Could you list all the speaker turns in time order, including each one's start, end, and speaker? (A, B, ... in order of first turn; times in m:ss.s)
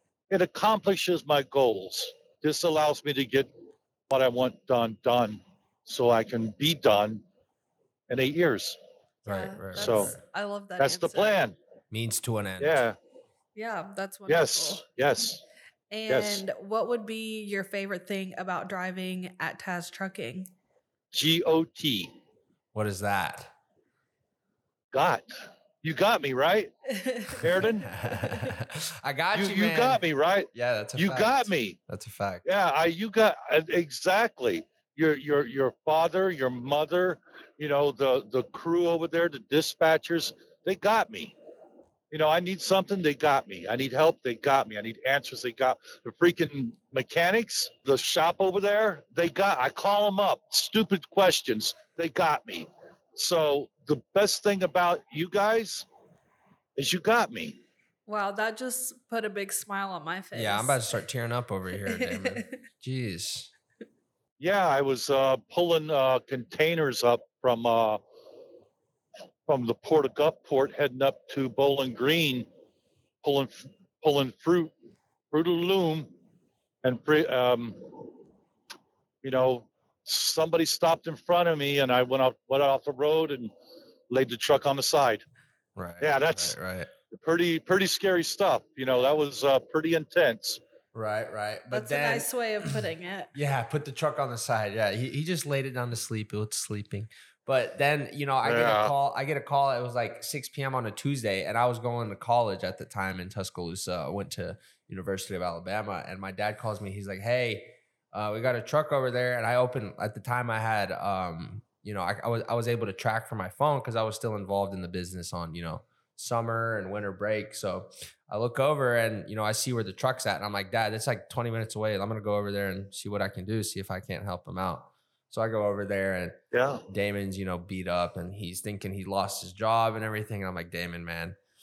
0:00.3-0:03.5 A
0:04.1-0:07.2 A
0:08.1-0:08.8 A
0:09.2-0:11.4 B
0:09.3-0:10.2 C
0:09.8-0:10.1 A
0:10.8-0:11.6 A
0:11.9-0:12.8 C
0:12.6-0:13.0 A
0:13.6-0:14.8 B
0:14.3-0:15.4 A
0:15.9-0:20.5 B
0:16.1-0:16.4 A
0:21.1-0:22.1 A
0:22.7-0:23.5 C
0:24.9-0:25.3 A
0:25.8-0:26.7 A
0:27.0-0:27.6 B
0:27.3-0:27.9 A
0:27.6-0:32.4 C
0:29.3-0:31.8 A
0:32.4-0:41.4 A
0:42.1-0:55.9 A
0:56.8-0:57.6 A
0:58.1-1:00.8 B
1:00.3-1:03.5 C
1:01.8-1:02.5 B
1:04.4-1:08.0 A
1:09.5-1:12.5 A
1:13.2-1:14.7 A
1:15.3-1:16.1 A
1:16.8-1:17.8 A
1:19.2-1:23.5 A
1:24.1-1:25.2 A
1:25.8-1:26.9 C
1:26.0-1:26.6 A
1:27.1-1:30.6 A
1:30.9-1:32.7 C
1:31.7-1:33.3 B
1:33.4-2:06.4 C
1:38.4-1:38.9 A
2:06.5-2:06.8 A
2:06.9-2:11.4 C